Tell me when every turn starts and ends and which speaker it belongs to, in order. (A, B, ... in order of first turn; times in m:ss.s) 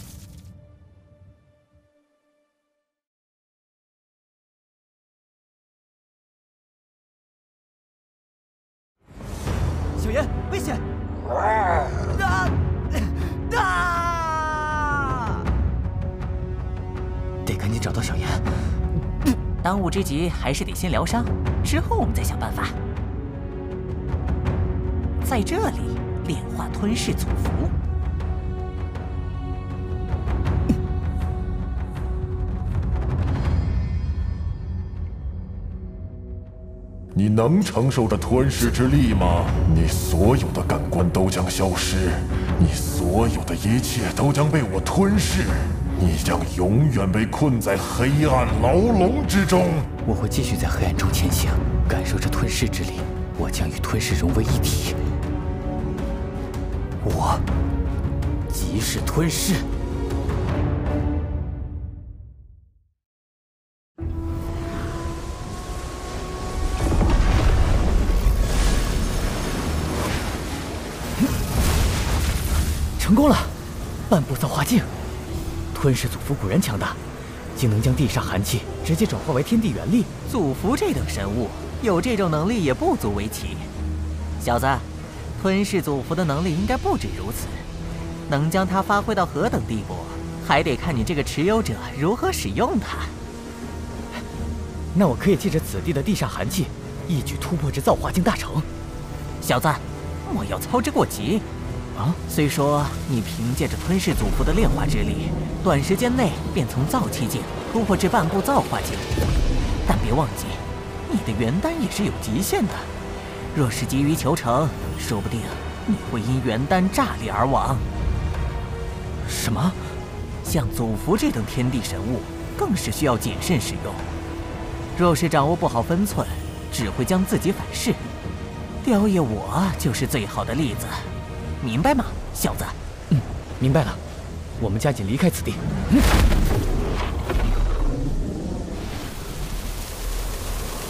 0:10.0-0:10.8 A
0:12.2-0:12.5 A
0:13.5-0:14.7 A
0:17.5-0:18.4 A
0:19.6-0:22.8 B
0:25.2-0:27.8 B
0:37.2-0:49.9 C
0:50.0-0:55.0 A
0:57.0-0:57.4 A
0:58.5-0:59.7 A
1:13.0-1:13.6 A
1:14.1-1:14.9 A
1:15.7-1:17.0 A
1:17.6-1:20.1 A
1:20.3-1:23.7 B
1:24.4-1:27.7 B
1:28.3-1:33.1 B
1:35.0-1:38.7 A
1:39.4-1:41.5 B
1:42.3-1:49.1 B
1:49.9-1:52.9 B
1:53.5-1:57.9 B
1:59.3-1:59.8 A
2:00.4-2:04.1 B
2:05.0-2:08.0 B
2:08.8-2:11.1 B
2:11.6-2:12.8 B
2:13.1-2:14.0 A
2:14.6-2:16.1 A